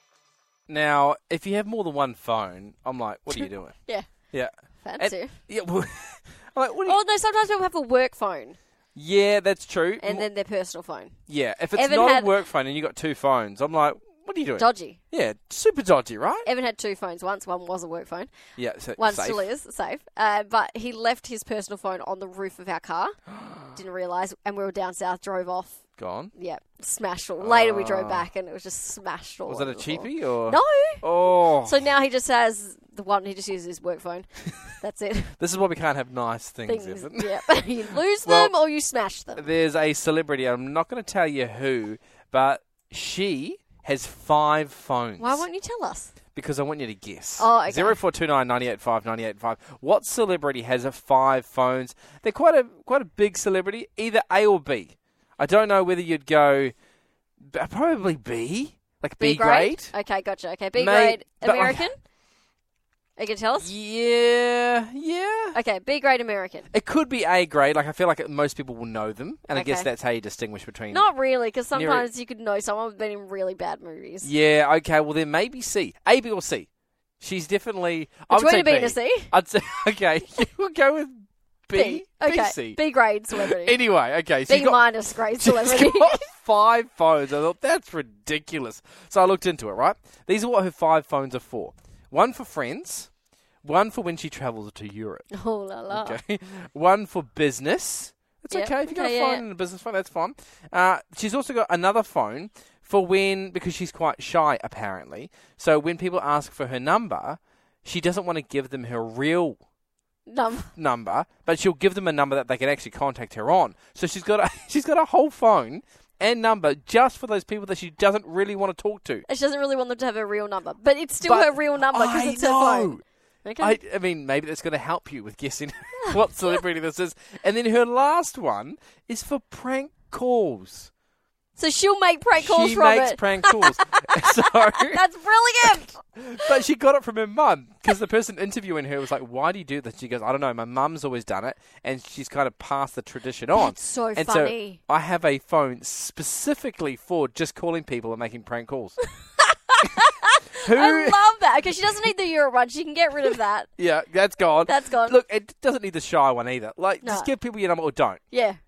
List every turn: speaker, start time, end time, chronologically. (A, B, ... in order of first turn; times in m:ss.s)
0:00.7-0:03.7 A
0:03.3-0:04.1 B
0:04.3-0:07.0 A
0:04.8-0:05.4 B
0:06.8-0:08.6 B
0:08.9-0:10.3 A
0:10.0-0:11.1 B
0:11.3-0:16.5 A
0:11.7-0:12.3 B
0:14.6-0:15.0 B
0:16.4-0:18.3 B
0:18.6-0:19.5 A
0:19.0-0:23.2 B
0:23.7-0:25.8 B
0:26.0-0:26.3 A
0:26.3-0:35.3 B
0:27.4-0:28.3 A
0:29.5-0:31.8 A
0:35.4-0:37.5 A
0:36.7-0:39.5 B
0:38.2-0:38.5 A
0:39.4-0:45.4 A
0:45.2-0:46.1 B
0:46.3-0:56.7 A
0:47.4-0:48.0 B
0:57.5-0:59.9 A
0:59.2-1:01.9 B
1:00.8-1:01.9 A
1:03.2-1:03.7 B
1:03.6-1:05.6 A
1:05.5-1:06.7 B
1:06.7-1:11.0 A
1:09.5-1:09.9 B
1:10.9-1:14.3 B
1:11.7-1:12.1 A
1:14.2-1:16.7 A
1:17.2-1:22.8 A
1:18.3-1:19.3 B
1:21.7-1:23.8 B
1:23.3-1:33.1 A
1:24.5-1:26.2 B
1:33.6-1:35.3 A
1:35.3-1:36.2 B
1:35.9-1:49.6 A
1:38.5-1:39.4 B
1:50.3-1:50.7 B
1:50.8-1:59.2 A
1:59.3-2:03.8 B
2:01.2-2:03.0 A
2:03.6-2:10.9 A
2:11.6-2:16.0 B
2:12.4-2:15.0 A
2:15.6-2:29.0 A
2:23.6-2:24.8 B
2:29.4-2:33.7 B
2:30.6-2:31.2 A
2:33.3-2:38.2 A
2:34.6-2:35.2 B
2:37.0-2:37.3 B
2:38.3-2:38.6 B